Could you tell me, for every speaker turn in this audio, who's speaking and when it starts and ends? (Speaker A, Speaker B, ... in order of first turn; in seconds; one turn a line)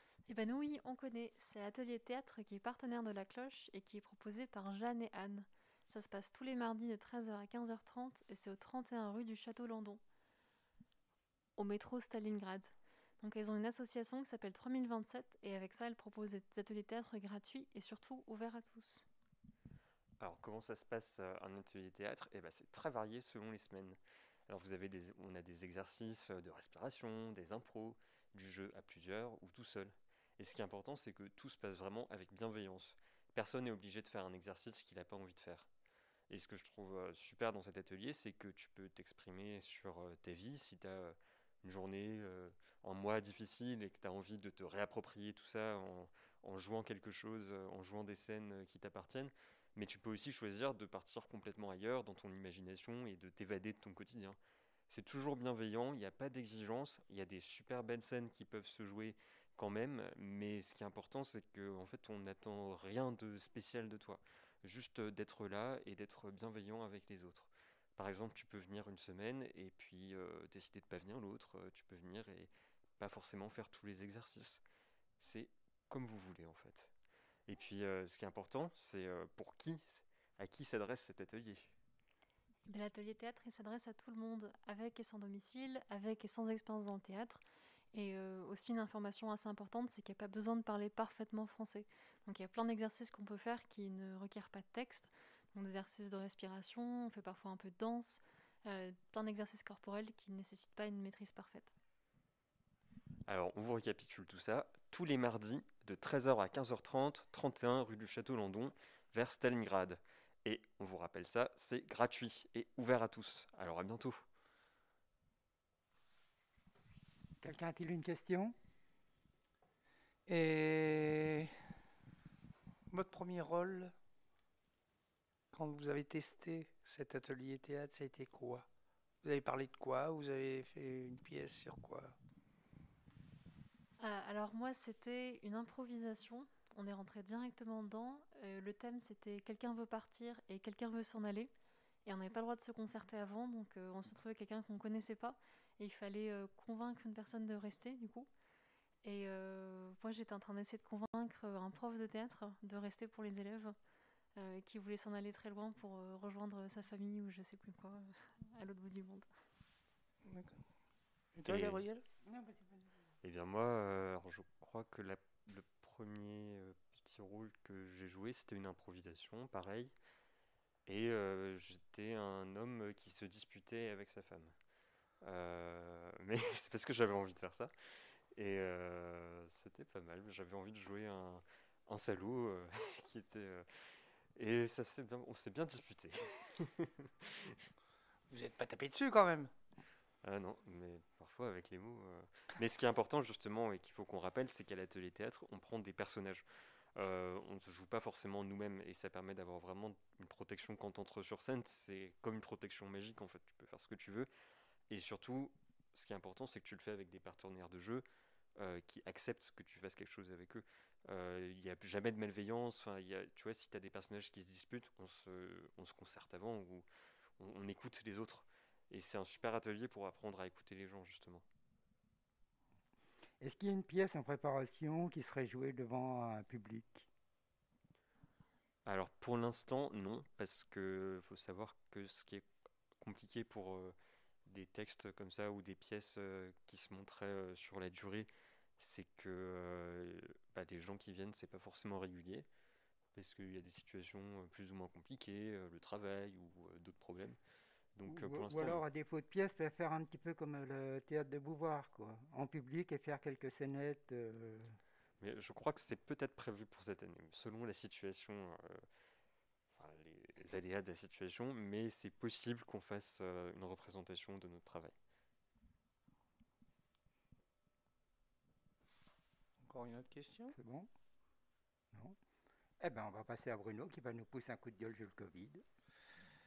Speaker A: 0.3-10.0
Speaker A: 11.6-19.1
Speaker B: 20.2-35.7
Speaker B: 36.3-54.4
Speaker B: 54.9-74.6
Speaker B: 75.2-76.9
Speaker B: 77.5-81.7
Speaker A: 82.7-87.4
Speaker A: 87.9-101.7
Speaker B: 103.3-114.2
Speaker C: 117.4-118.5
Speaker D: 120.3-121.5
Speaker D: 122.9-123.9
Speaker D: 125.5-128.7
Speaker D: 129.2-132.1
Speaker A: 134.0-141.5
Speaker A: 142.1-148.3
Speaker A: 149.0-153.8
Speaker A: 154.4-159.3
Speaker D: 160.2-160.5
Speaker D: 161.4-162.1
Speaker B: 161.5-161.8
Speaker C: 162.3-162.8
Speaker B: 163.2-169.9
Speaker B: 170.9-174.5
Speaker B: 175.2-177.7
Speaker B: 178.3-187.7
Speaker D: 188.3-189.5
Speaker B: 190.2-196.4
Speaker B: 197.0-204.3
Speaker B: 204.9-208.1
Speaker B: 208.6-216.8
Speaker B: 217.4-221.4
Speaker C: 223.4-227.1
Speaker B: 228.9-232.5
Speaker B: 233.0-233.9
Speaker B: 234.5-242.5
Speaker B: 243.2-247.4
Speaker B: 247.9-248.8
Speaker C: 248.1-254.8
Speaker B: 255.2-258.9
Speaker B: 259.7-264.9
Speaker D: 269.7-270.6
Speaker C: 270.5-270.9
Speaker C: 272.8-275.6